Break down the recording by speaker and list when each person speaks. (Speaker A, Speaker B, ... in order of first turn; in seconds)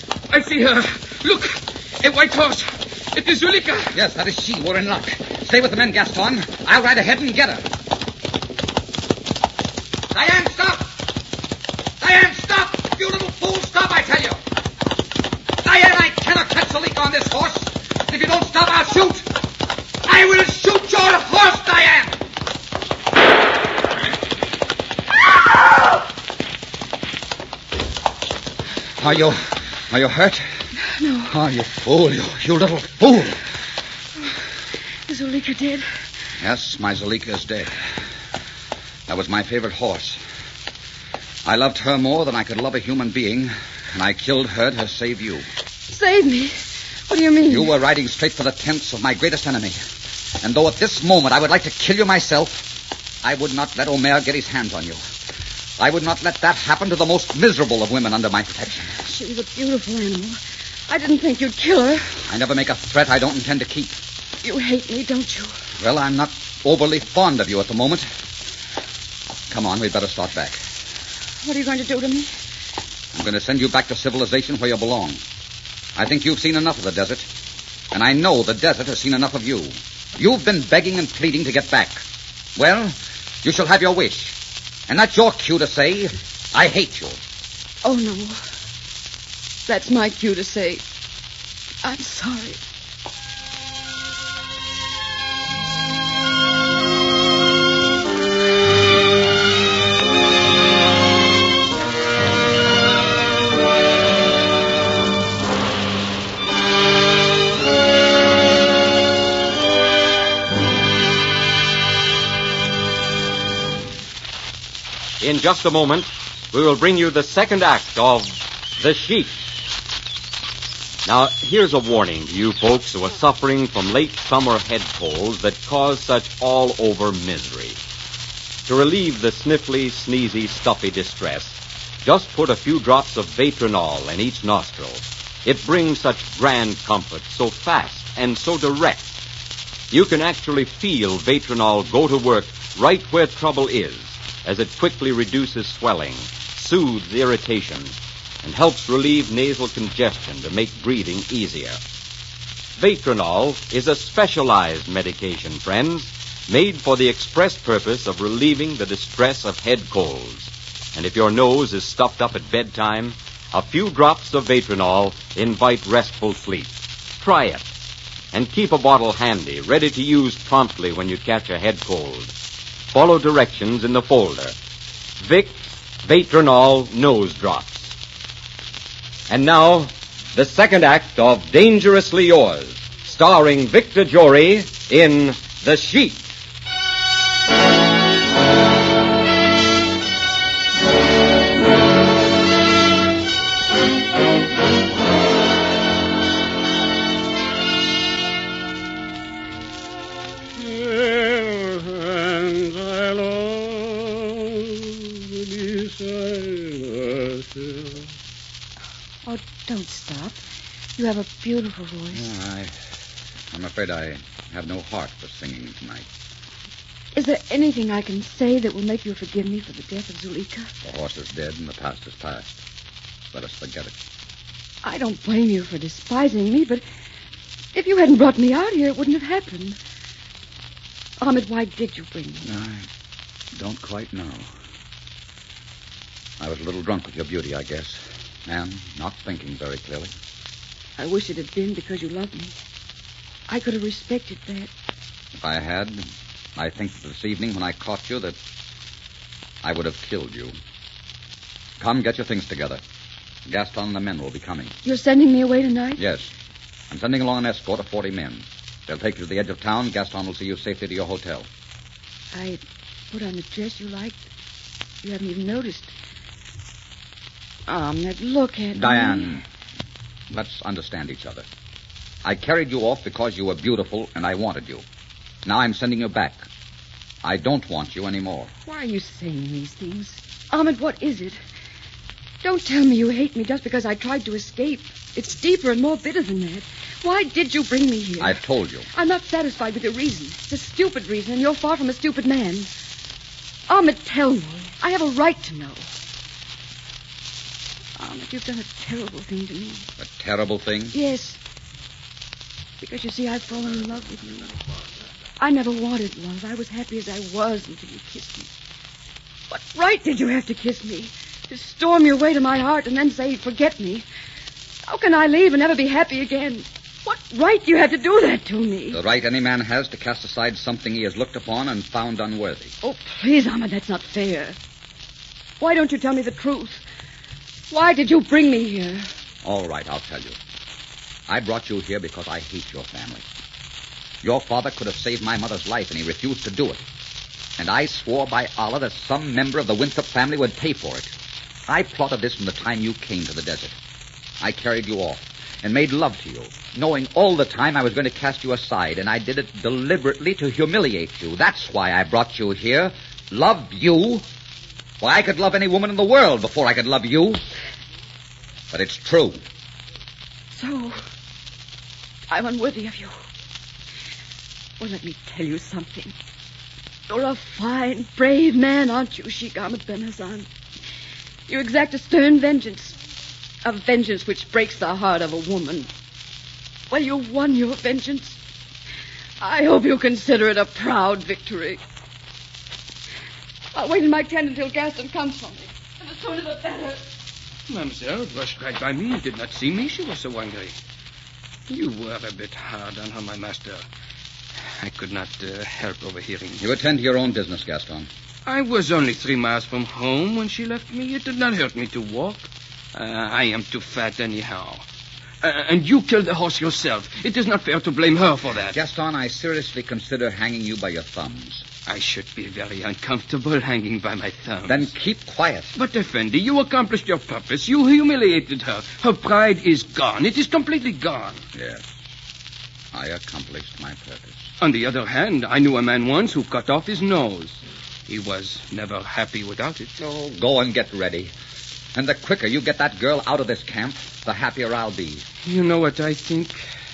Speaker A: 0.3-3.9, 201.1-204.1, 205.4-207.9, 387.7-390.8, 391.7-393.9, 394.6-396.6, 398.4-404.9, 405.4-408.8, 411.9-414.9, 415.8-421.4, 424.6-429.9, 435.5-436.6
Speaker B: 3.9-7.7, 10.1-10.9, 12.0-14.4, 15.6-19.2, 20.0-22.1, 29.0-30.7, 31.3-33.4, 36.4-37.8, 39.1-40.2, 41.4-45.5, 47.5-49.8, 50.4-52.7, 53.2-55.0, 55.8-59.0, 62.2-64.0, 65.8-68.1, 69.5-70.6, 73.1-75.2, 75.9-77.3, 77.9-82.0, 82.5-87.2, 212.1-212.7, 213.5-216.1, 220.8-222.5, 223.3-223.9, 232.4-232.9, 233.5-234.5, 236.4-240.1, 245.3-248.4, 249.6-250.5, 251.8-252.8, 253.4-254.7, 256.0-256.3, 256.9-261.5, 268.7-269.4, 270.3-271.5, 272.2-274.9, 275.4-276.5, 277.2-278.5, 288.2-288.9, 300.0-301.0, 318.9-322.7, 329.4-330.4, 331.3-333.2, 334.2-336.9, 337.6-341.1, 341.7-343.8, 344.4-354.2, 355.0-357.4, 358.7-359.4, 396.6-398.1, 408.7-411.6, 414.7-415.7, 421.5-421.9, 422.9-424.5, 430.0-431.3, 431.9-435.2
Speaker C: 30.8-31.3, 35.1-35.9, 45.9-47.7, 59.0-62.1, 64.4-65.6, 71.4-72.3, 87.8-88.4, 89.7-90.8, 91.8-92.6, 209.2-210.4, 210.9-212.3, 217.1-220.7, 224.8-226.8, 227.7-229.8, 231.2-232.5, 241.0-242.6, 243.5-244.7, 254.8-256.0, 262.3-264.2, 265.0-265.9, 267.7-269.4, 278.6-281.4, 282.4-292.7, 293.7-295.9, 298.0-299.9, 300.9-301.4, 302.8-304.6, 305.4-308.5, 309.5-314.1, 314.9-319.0, 322.8-324.6, 325.6-326.8, 327.7-329.1, 360.5-361.0, 362.3-363.1, 364.8-366.1, 367.1-370.5, 371.5-373.0, 373.6-375.9, 376.9-378.4, 379.4-381.8, 383.7-387.0
Speaker D: 115.2-119.5, 121.0-127.8, 128.7-139.1, 139.9-151.8, 152.8-167.7, 168.3-172.3, 172.9-174.6, 175.2-177.9, 179.3-186.3